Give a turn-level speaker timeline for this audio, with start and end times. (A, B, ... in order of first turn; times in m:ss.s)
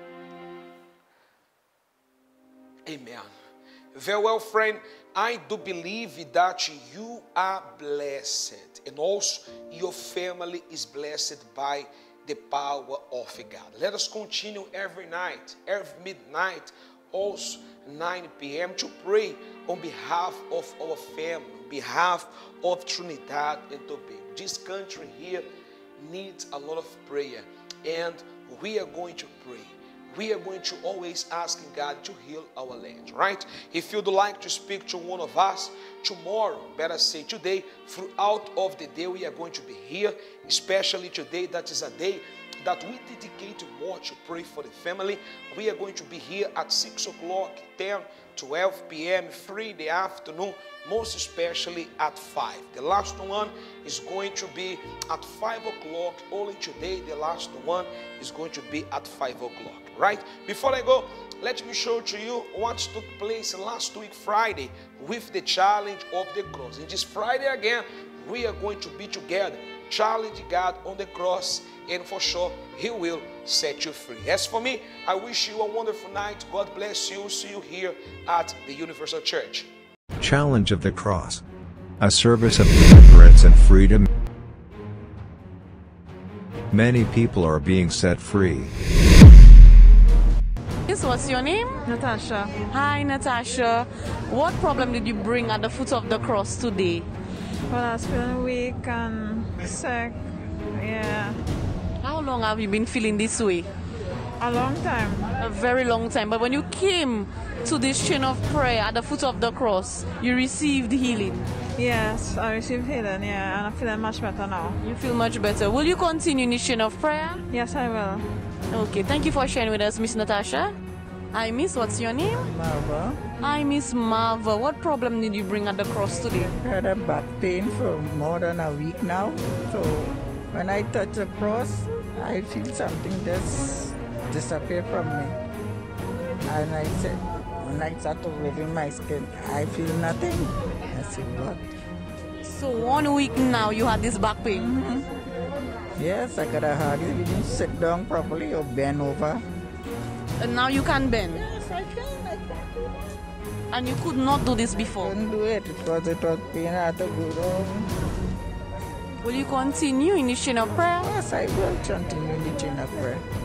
0:02.9-0:03.3 A
0:03.9-0:25.4 A
0:26.0-1:19.7 A
1:20.2-1:21.4 B
1:22.0-1:24.1 B
1:26.7-1:28.7 B
1:30.8-1:31.9 C
1:31.8-1:32.6 D
1:32.6-1:37.1 C
1:37.7-1:40.2 D
1:40.7-1:41.4 D
1:42.0-1:43.7 C
1:44.4-1:45.3 D
1:45.3-1:51.4 C
1:51.7-1:54.8 D
1:54.8-1:57.4 C
1:57.5-1:58.2 D
1:58.7-2:00.8 C
2:01.3-2:02.5 C
2:02.4-2:03.2 E
2:03.4-2:06.5 C
2:06.4-2:15.4 E
2:16.5-2:21.7 E
2:22.4-2:24.7 C
2:24.6-2:25.1 E
2:26.0-2:29.4 E
2:30.4-2:31.4 C
2:31.5-2:32.4 E
2:33.7-2:35.1 C
2:35.0-2:37.9 E
2:39.2-2:41.1 C
2:41.0-2:43.2 E